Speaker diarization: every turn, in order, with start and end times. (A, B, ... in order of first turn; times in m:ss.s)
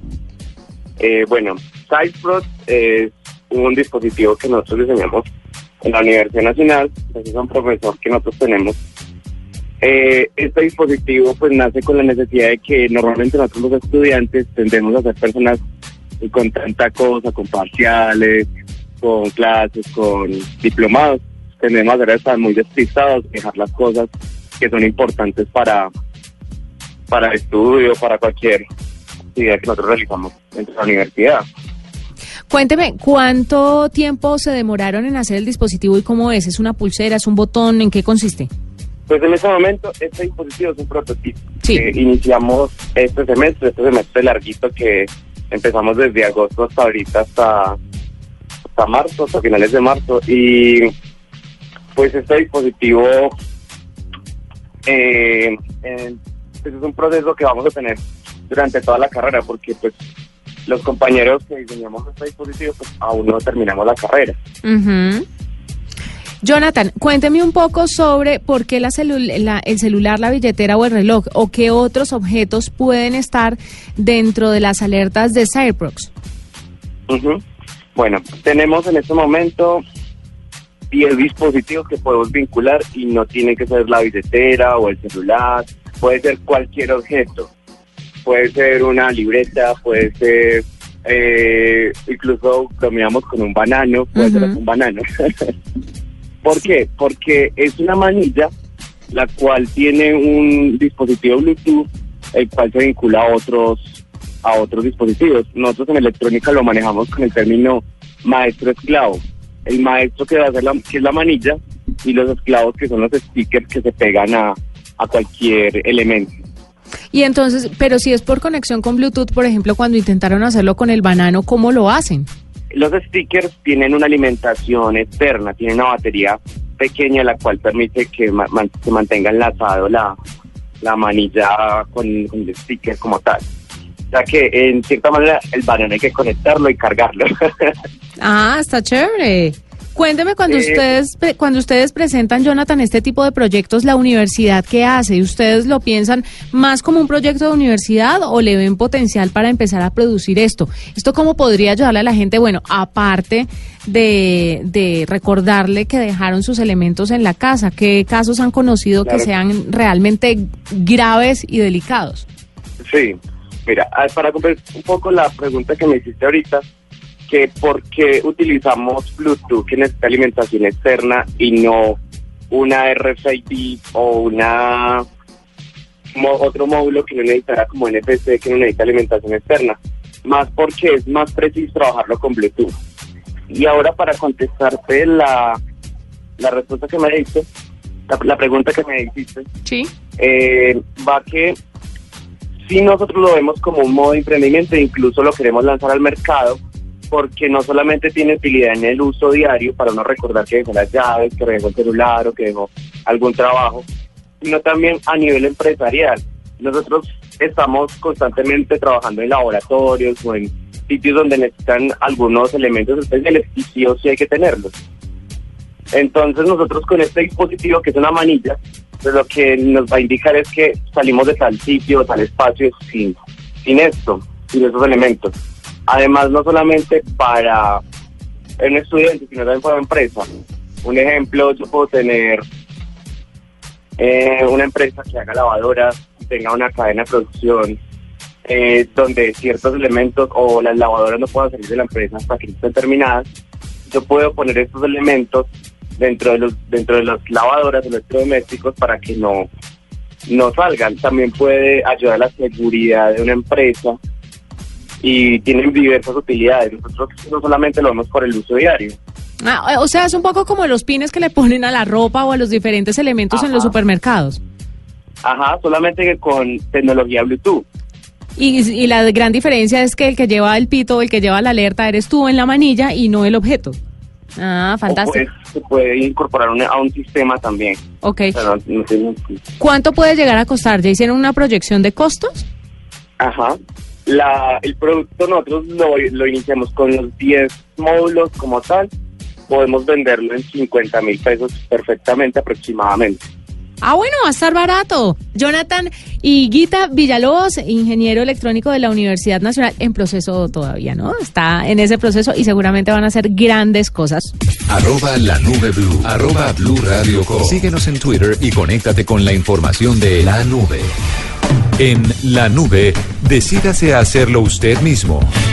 0:01.0-0:05.3 A
0:05.8-0:08.8 A
0:09.8-0:15.6 A
0:16.2-0:18.5 A
0:19.0-0:24.1 A
0:24.6-0:25.9 A
0:27.1-0:28.6 A
0:29.3-0:31.4 A
0:32.5-0:38.5 B
0:39.1-0:47.8 A
0:48.7-0:50.9 A
0:52.0-0:53.3 A
0:54.8-0:59.9 A
1:00.6-1:04.4 A
1:04.6-1:05.2 B
1:06.4-1:16.1 B
1:17.1-1:17.4 A
1:17.9-1:19.8 A
1:20.9-1:27.5 A
1:28.2-1:35.5 A
1:34.2-1:34.5 B
1:36.4-1:38.5 A
1:39.1-1:56.3 A
1:57.1-2:02.3 B
2:02.7-2:10.1 A
2:10.8-2:13.4 A
2:14.1-2:17.8 A
2:18.2-2:42.2 B
2:20.5-2:20.8 A
2:42.8-2:46.6 A
2:47.3-2:52.0 A
2:52.5-2:55.0 A
2:56.1-3:02.7 A
3:03.5-3:05.6 A
3:06.4-3:07.4 A
3:08.1-3:09.5 A
3:10.2-3:11.6 A
3:12.6-3:16.6 A
3:17.1-3:23.8 A
3:24.4-3:34.7 A
3:35.9-3:45.3 A
3:45.9-3:47.8 A
3:48.6-3:50.3 A
3:50.8-3:52.4 A
3:54.0-3:57.8 A
3:58.4-4:03.3 A
4:03.9-4:05.5 A
4:06.0-4:09.5 A
4:10.3-4:14.0 A
4:15.0-4:19.0 A
4:19.4-4:24.4 B
4:23.3-4:23.7 A
4:25.2-4:27.6 A
4:28.4-4:33.8 B
4:34.4-4:35.2 B
4:34.9-4:37.8 A
4:38.0-4:38.4 B
4:38.3-4:39.4 A
4:39.6-4:42.4 B
4:43.2-4:48.9 A
4:49.5-4:53.2 A
4:53.8-5:04.3 B
5:04.7-5:10.9 C
5:11.8-5:15.3 C